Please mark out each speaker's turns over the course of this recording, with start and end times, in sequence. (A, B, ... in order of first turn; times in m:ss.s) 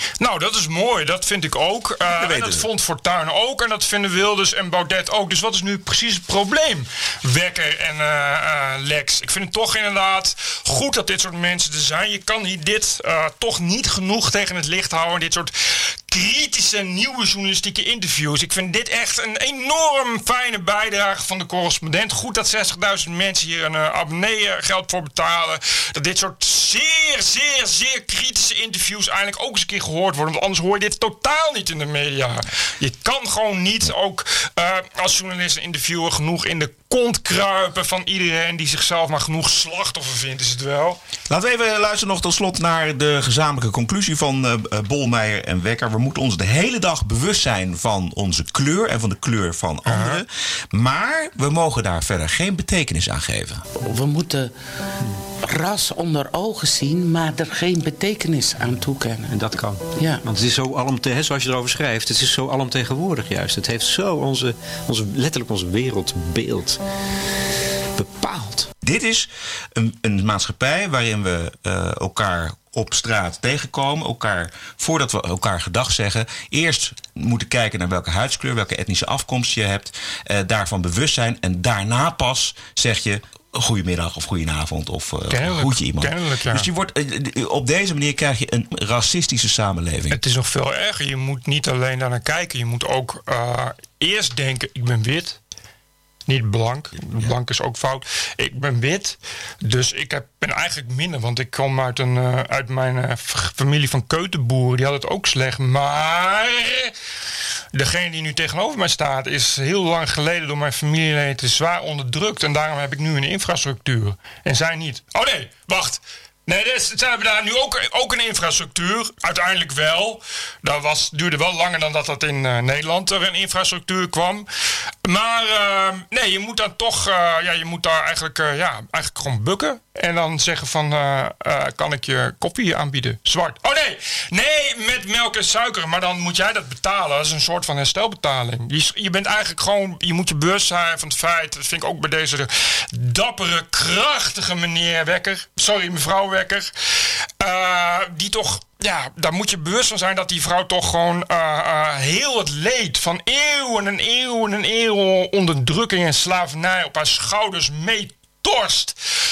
0:00.2-0:41.0 A
0:02.1-0:02.7 B
0:41.3-0:53.6 B
0:49.8-0:50.2 A
0:53.8-0:54.5 C
0:55.4-0:59.4 C
0:59.3-1:06.8 D
1:00.0-1:00.2 C
1:08.0-1:08.7 D
1:08.8-1:30.2 B
1:25.3-1:26.7 A
1:30.1-1:35.4 A
1:36.3-1:46.9 A
1:47.7-2:04.5 A
2:05.0-2:26.7 A
2:27.4-2:39.0 A